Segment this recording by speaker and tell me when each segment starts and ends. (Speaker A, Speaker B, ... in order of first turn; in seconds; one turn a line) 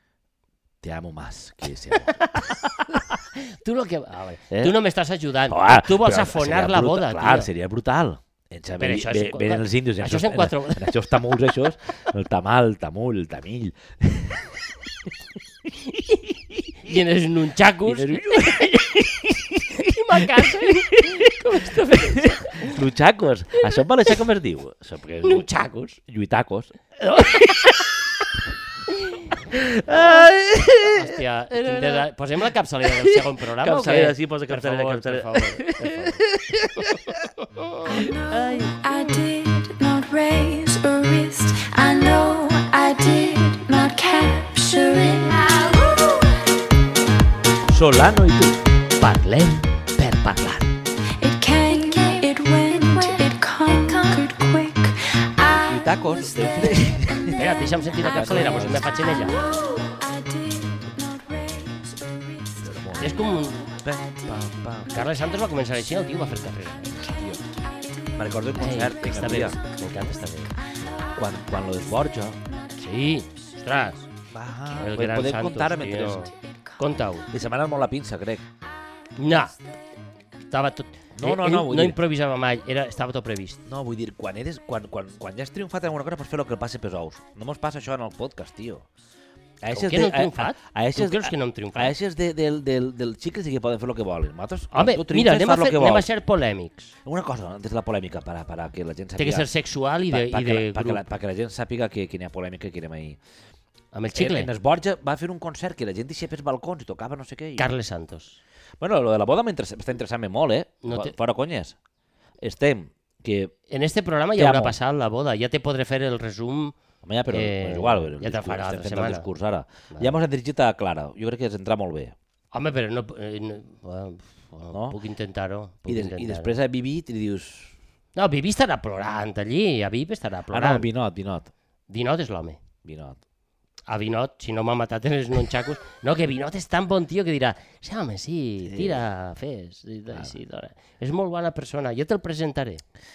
Speaker A: 0.8-3.0
Speaker B: 1.9-2.6
Speaker B: 3.3-7.5
Speaker A: 5.5-14.6
Speaker B: 8.8-10.9
Speaker A: 15.9-16.4
Speaker B: 16.8-18.6
Speaker A: 17.9-25.4
Speaker B: 19.8-22.8
Speaker B: 25.2-26.0
Speaker A: 26.1-26.7
Speaker B: 27.0-27.9
Speaker A: 27.3-27.7
Speaker A: 29.5-32.1
Speaker B: 30.9-36.2
Speaker A: 32.8-37.2
Speaker B: 36.8-38.0
Speaker A: 38.0-38.8
Speaker C: 38.1-46.4
Speaker A: 47.7-48.6
Speaker B: 49.0-50.7
Speaker C: 51.2-55.9
Speaker A: 55.7-59.5
Speaker C: 56.4-56.7
Speaker B: 57.3-59.4
Speaker C: 58.2-64.8
Speaker A: 62.6-65.0
Speaker B: 63.0-63.8
Speaker B: 64.9-67.0
Speaker C: 66.9-71.2
Speaker A: 67.0-67.4
Speaker A: 68.2-69.6
Speaker B: 68.5-70.5
Speaker A: 71.2-72.4
Speaker C: 72.5-73.2
Speaker B: 72.8-74.1
Speaker A: 74.3-76.3
Speaker B: 74.8-77.3
Speaker C: 76.3-76.8
Speaker A: 77.3-78.5
Speaker B: 79.2-79.5
Speaker B: 80.4-83.6
Speaker A: 81.2-82.0
Speaker A: 83.7-88.9
Speaker A: 89.6-96.1
Speaker B: 89.7-91.9
Speaker B: 94.7-96.9
Speaker A: 97.0-99.5
Speaker B: 99.2-101.0
Speaker A: 100.1-103.2
Speaker B: 103.9-104.5
Speaker A: 104.1-107.7
Speaker B: 107.6-108.4
Speaker A: 108.8-111.8
Speaker B: 110.8-111.1
Speaker A: 112.4-113.5
Speaker B: 113.7-116.8
Speaker A: 114.4-114.8
Speaker A: 117.0-122.2
Speaker B: 117.3-119.3
Speaker B: 119.9-120.2
Speaker B: 122.5-126.6
Speaker A: 124.7-125.0
Speaker A: 125.9-127.8
Speaker B: 128.2-130.9
Speaker A: 130.5-131.5
Speaker B: 131.9-132.6
Speaker A: 132.8-133.2
Speaker B: 133.9-142.8
Speaker A: 138.6-139.0
Speaker A: 140.1-140.4